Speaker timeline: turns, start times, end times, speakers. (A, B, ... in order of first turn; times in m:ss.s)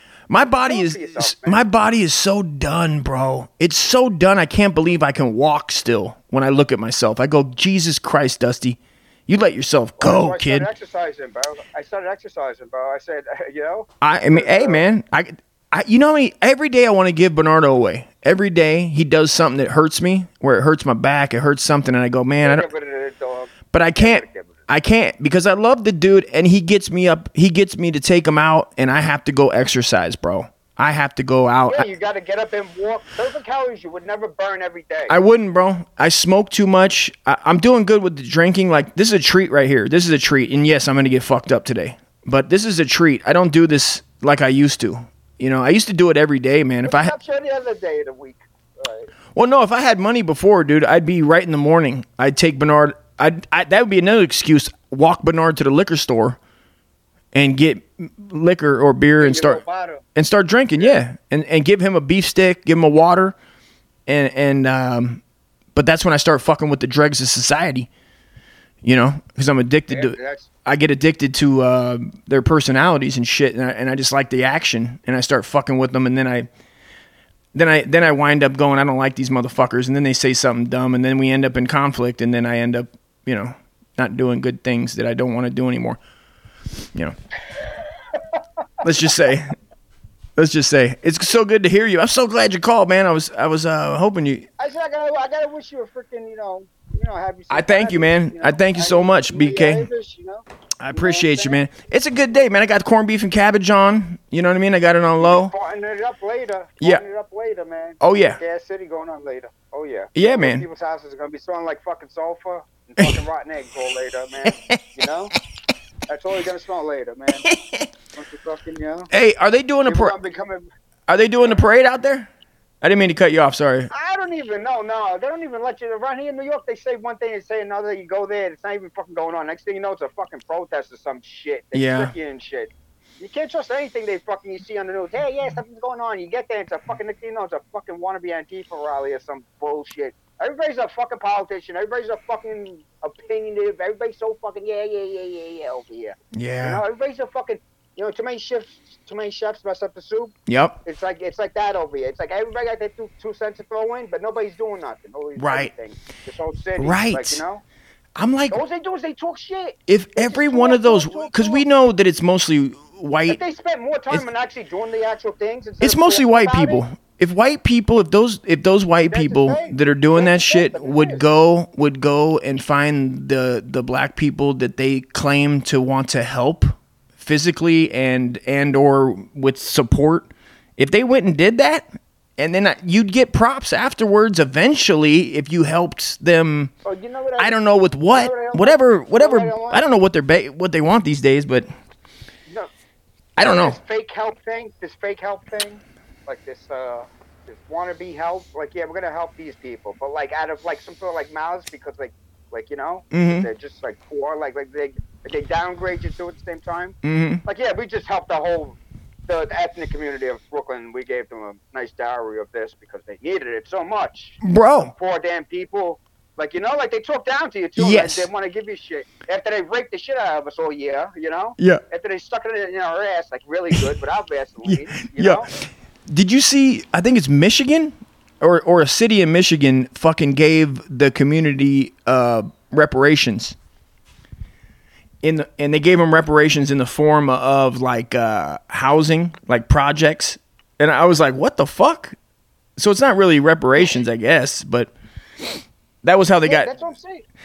0:00.3-0:10.7 A
0:00.4-0:01.6 B
0:10.0-0:14.8 B
0:14.0-0:22.6 A
0:22.4-0:24.6 B
0:23.7-0:31.8 A
0:31.7-0:35.2 B
0:35.1-0:47.1 A
0:46.8-0:49.1 B
0:49.3-0:56.4 A
0:57.3-0:59.6 A
0:59.2-1:00.0 B
1:00.2-1:03.3 A
1:04.1-1:05.2 A
1:05.7-1:07.9 A
1:08.8-1:16.5 A
1:09.9-1:10.5 B
1:17.5-1:26.0 A
1:28.8-1:29.5 A
1:30.4-1:34.5 A
1:34.6-1:41.6 B
1:37.5-1:39.9 A
1:40.8-1:45.5 A
1:45.2-1:55.3 B
1:48.0-1:48.4 A
1:50.1-1:50.6 A
1:54.4-1:54.8 A
1:56.1-1:57.5 B
1:57.4-1:57.9 A
1:58.1-1:59.1 B
1:59.1-2:00.1 A
1:59.8-2:00.6 B
2:01.1-2:02.3 A
2:01.4-2:01.6 B
2:02.8-2:03.9 A
2:03.9-2:37.6 B
2:11.7-2:12.1 A
2:26.3-2:26.8 A
2:30.5-2:30.8 A
2:35.4-2:35.7 A
2:36.8-2:37.4 A
2:38.2-2:38.6 A
2:38.5-2:41.6 B
2:39.9-2:43.4 A
2:43.3-2:46.8 B
2:45.8-3:01.9 A
2:49.1-2:51.2 B
3:02.4-3:06.7 A
3:06.8-3:09.8 B
3:07.4-3:11.7 A
3:13.4-3:13.8 A
3:13.4-3:28.8 B
3:23.1-3:23.5 A
3:27.0-3:27.4 A
3:29.3-3:45.5 B
3:34.4-3:34.9 A
3:37.8-3:38.3 A
3:44.7-3:45.4 A
3:46.1-3:53.6 A
3:55.2-4:02.2 A
4:02.8-4:04.9 A
4:06.0-4:06.7 A
4:06.4-4:07.2 B